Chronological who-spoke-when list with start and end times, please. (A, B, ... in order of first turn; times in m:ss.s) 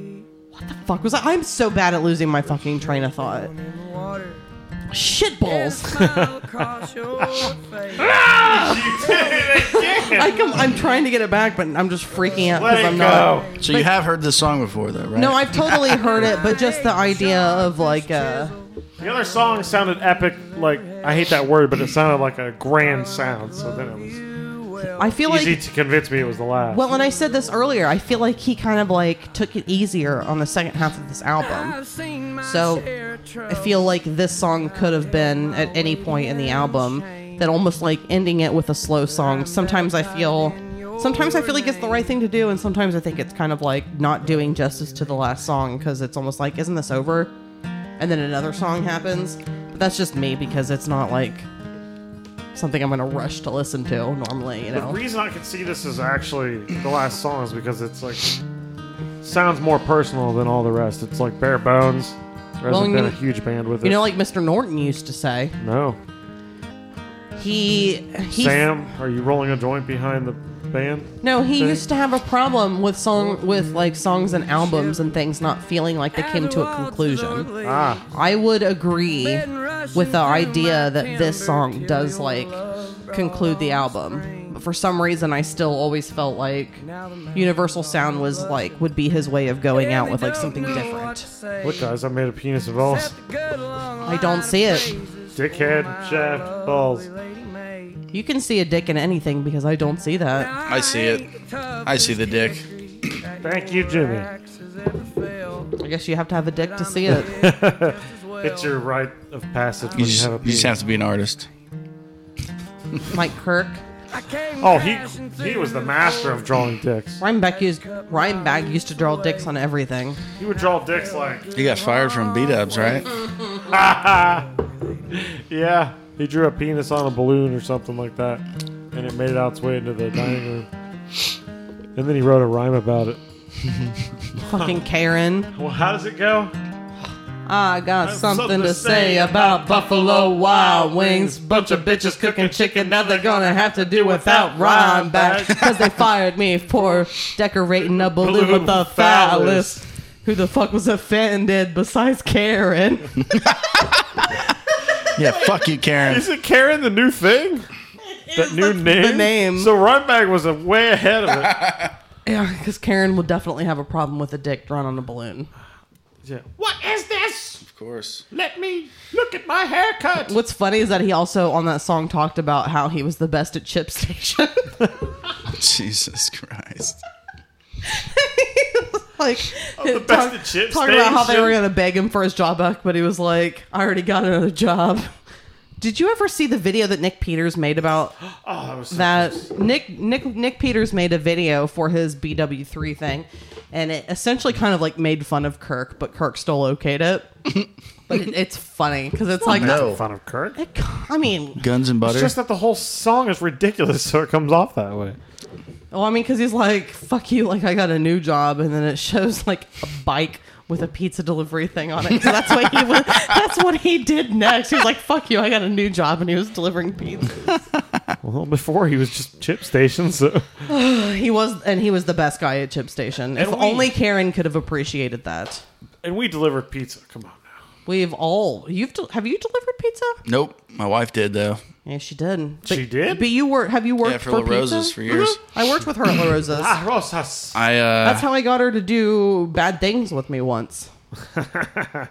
0:00.5-0:03.5 A
0:04.9-0:06.2 A
0:06.0-0:06.6 B
0:07.2-0:10.5 B
0:08.4-0:13.9 A
0:12.5-0:13.5 B
0:13.6-0:15.7 C
0:15.2-0:18.6 A
0:19.0-0:24.2 B
0:25.0-0:25.6 A
0:25.3-0:26.8 B
0:26.7-0:31.8 A
0:32.4-0:32.9 A
0:33.4-0:47.3 A
0:48.0-0:51.5 A
0:52.5-0:55.0 A
0:54.7-0:58.4 B
0:59.2-1:04.0 B
1:02.7-1:03.2 A
1:03.8-1:05.6 A
1:05.6-1:06.0 B
1:07.4-1:08.7 A
1:08.3-1:11.8 B
1:11.2-1:17.5 A
1:17.6-1:18.0 B
1:18.1-1:31.3 A
1:31.6-1:33.2 B
1:34.0-1:35.0 A
1:35.4-1:37.1 B
1:38.1-1:40.5 A
1:40.6-1:41.3 C
1:41.8-1:42.7 C
1:43.4-1:44.3 B
1:45.8-1:47.3 A
1:47.2-1:50.8 B
1:49.9-1:51.5 C
1:53.1-1:53.8 A
1:54.6-1:57.2 B
1:57.2-2:00.2 A
2:00.4-2:01.5 B
2:01.6-2:03.1 C
2:03.6-2:04.5 B
2:05.1-2:10.7 B
2:12.0-2:13.2 B
2:14.4-2:15.5 A
2:15.5-2:16.5 B
2:17.4-2:33.3 A
2:18.0-2:25.8 B
2:28.2-2:29.8 B
2:33.3-2:33.8 C
2:35.1-2:36.3 C
2:36.0-2:37.7 B
2:38.3-2:39.7 A
2:38.4-2:41.6 B
2:41.3-2:41.9 C
2:42.3-2:45.5 A
2:46.2-2:47.6 B
2:47.6-2:48.2 C
2:48.3-2:50.3 B
2:50.3-2:54.7 A
2:55.5-2:57.0 C
2:57.8-3:05.1 A
2:59.8-3:01.6 B
3:05.8-3:08.1 A
3:08.4-3:09.5 B
3:08.9-3:17.3 A
3:18.1-3:19.9 A
3:19.4-3:20.6 B
3:19.5-3:20.0 C
3:20.6-3:21.6 A
3:21.6-3:22.4 C
3:22.0-3:25.2 B
3:25.9-3:37.5 A
3:38.2-3:40.5 B
3:40.7-3:45.6 A
3:43.4-3:43.9 B
3:46.0-3:47.6 B
3:47.8-3:50.2 A
3:50.3-3:51.6 C
3:51.8-3:56.8 A
3:52.6-3:53.3 B
3:54.0-3:55.4 C
3:56.5-3:57.6 B
3:57.5-3:58.3 C
3:58.0-4:00.9 A